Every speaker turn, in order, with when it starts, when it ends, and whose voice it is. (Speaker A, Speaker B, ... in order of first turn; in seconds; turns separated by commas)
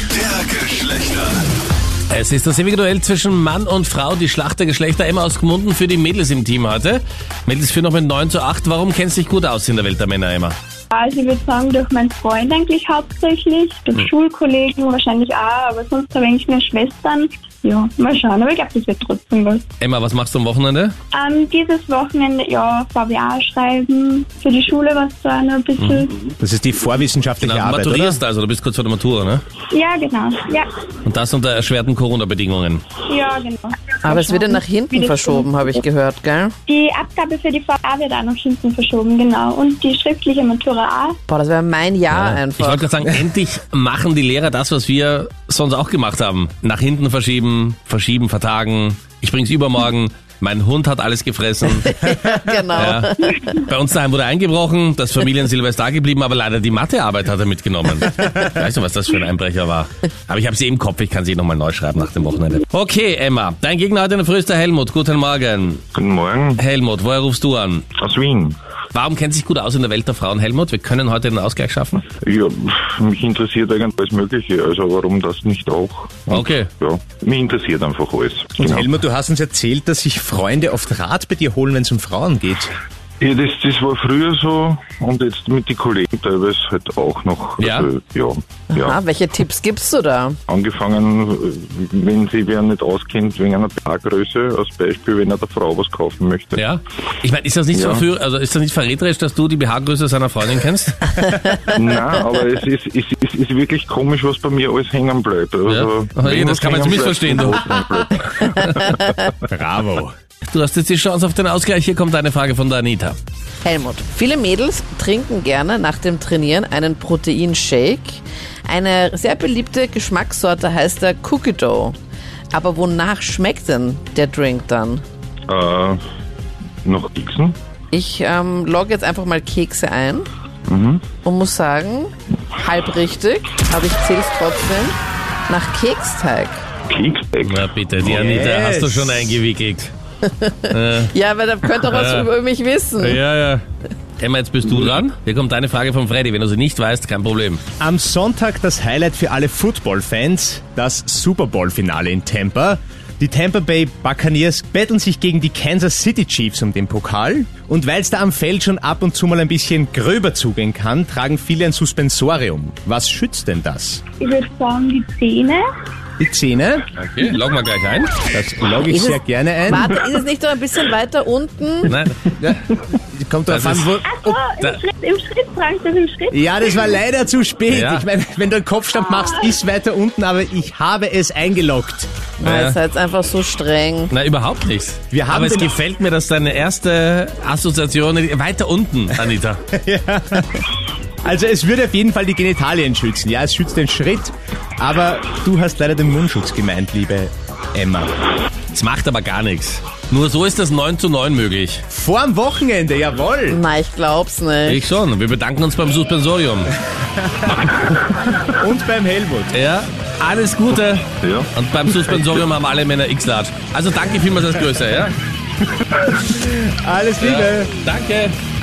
Speaker A: 2.1-10.6, Speaker B: 10.9-19.6, Speaker A: 19.8-20.9, Speaker B: 21.1-26.3, Speaker A: 25.8-26.1, Speaker C: 26.4-28.2, Speaker A: 27.4-29.4, Speaker B: 29.7-30.8, Speaker A: 31.0-32.8, Speaker B: 33.0-35.5, Speaker D: 34.0-36.5, Speaker B: 36.7-41.2, Speaker D: 41.3-42.9, Speaker A: 42.1-52.0, Speaker D: 51.9-53.6, Speaker A: 52.7-65.8, Speaker E: 65.9-66.6, Speaker A: 66.6-67.8, Speaker E: 68.0-68.6, Speaker A: 68.9-72.0, Speaker E: 72.2-78.9, Speaker A: 76.3-76.7, Speaker C: 78.6-82.7, Speaker E: 83.2-89.0, Speaker A: 87.6-87.9, Speaker D: 88.7-90.4, Speaker E: 90.5-96.7, Speaker A: 96.6-101.2, Speaker E: 97.7-98.0, Speaker D: 101.2-101.7, Speaker E: 101.7-109.2, Speaker A: 105.7-107.7, Speaker A: 108.6-108.9, Speaker C: 109.5-110.1, Speaker A: 110.4-113.2, Speaker D: 113.6-122.0, Speaker D: 122.5-125.0, Speaker E: 125.5-126.0, Speaker E: 126.8-127.6, Speaker D: 127.9-130.3, Speaker E: 130.7-131.1, Speaker D: 131.2-134.9, Speaker D: 135.5-136.6, Speaker E: 136.9-138.1, Speaker A: 137.4-139.9, Speaker C: 138.0-139.4, Speaker D: 140.2-143.2, Speaker A: 140.7-141.1, Speaker A: 141.7-142.3, Speaker A: 143.0-143.6, Speaker A: 144.2-147.6, Speaker C: 147.8-164.0, Speaker B: 164.2-165.7, Speaker C: 166.2-166.9, Speaker A: 167.0-168.2, Speaker C: 168.3-169.9, Speaker D: 168.9-171.9, Speaker A: 171.9-172.3, Speaker C: 172.4-174.4, Speaker A: 173.5-174.0, Speaker B: 174.0-176.4, Speaker C: 176.3-182.1, Speaker A: 177.7-178.1, Speaker D: 182.4-184.1, Speaker A: 182.4-182.8, Speaker A: 184.1-189.6, Speaker C: 185.1-185.7, Speaker C: 189.7-190.6, Speaker C: 191.2-198.1, Speaker A: 198.7-201.8, Speaker C: 201.9-203.6, Speaker D: 203.5-204.9, Speaker A: 204.7-206.7, Speaker C: 207.0-207.6, Speaker A: 207.4-207.7, Speaker C: 208.4-209.5, Speaker A: 209.5-215.2, Speaker E: 211.1-212.3, Speaker C: 216.1-217.7, Speaker A: 217.2-218.3